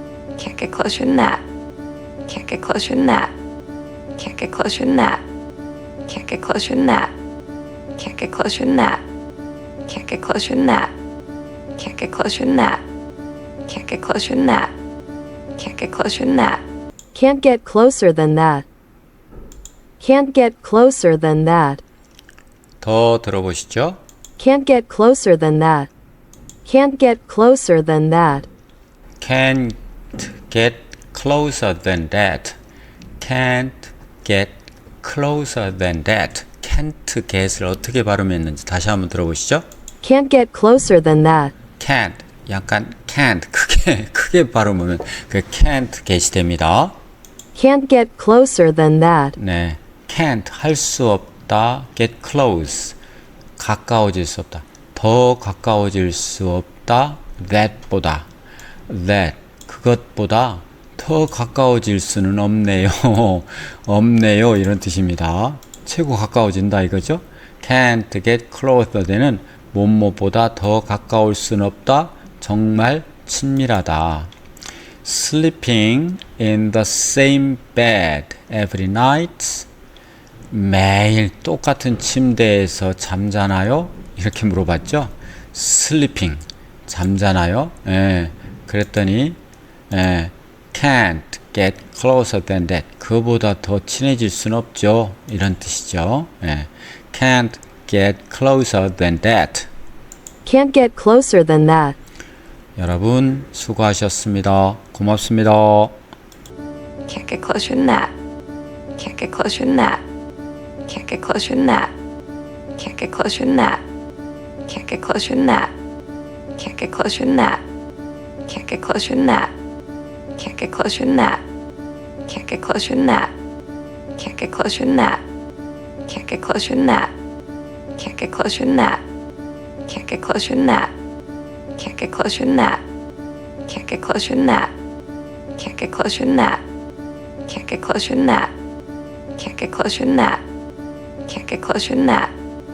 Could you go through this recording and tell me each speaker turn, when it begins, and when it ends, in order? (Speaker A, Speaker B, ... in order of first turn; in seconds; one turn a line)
Speaker A: 0.4-1.4
Speaker A: 2.3-3.3
Speaker A: 4.2-5.2
Speaker A: 6.1-7.1
Speaker A: 8.0-9.0
Speaker A: 9.9-10.9
Speaker A: 11.8-12.8
Speaker A: 13.7-14.7
Speaker A: 15.6-16.6
Speaker B: 17.1-18.6
Speaker B: 20.0-21.8
Speaker C: 22.8-24.0
Speaker B: 24.4-25.9
Speaker B: 26.6-28.5
Speaker C: 29.2-32.6
Speaker C: 33.2-39.6
Speaker B: 40.0-41.5
Speaker C: 41.8-47.0
Speaker B: 47.5-49.4
Speaker C: 49.4-53.0
Speaker C: 53.6-58.3
Speaker C: 58.9-74.3
Speaker C: 75.0-79.7
Speaker C: 80.5-89.4
Speaker C: 89.9-99.7
Speaker B: 100.4-102.0
Speaker C: 102.8-106.0
Speaker A: 107.1-108.1
Speaker A: 109.0-110.0
Speaker A: 110.9-111.9
Speaker A: 112.8-113.8
Speaker A: 114.7-115.7
Speaker A: 116.6-117.6
Speaker A: 118.5-119.5
Speaker A: 120.4-121.4
Speaker A: 122.3-123.3
Speaker A: 124.2-125.2
Speaker A: 126.1-127.1
Speaker A: 128.0-129.0
Speaker A: 129.9-130.9
Speaker A: 131.8-132.8
Speaker A: 133.7-134.7
Speaker A: 135.6-136.6
Speaker A: 137.5-138.5
Speaker A: 139.4-140.4
Speaker A: 141.3-142.3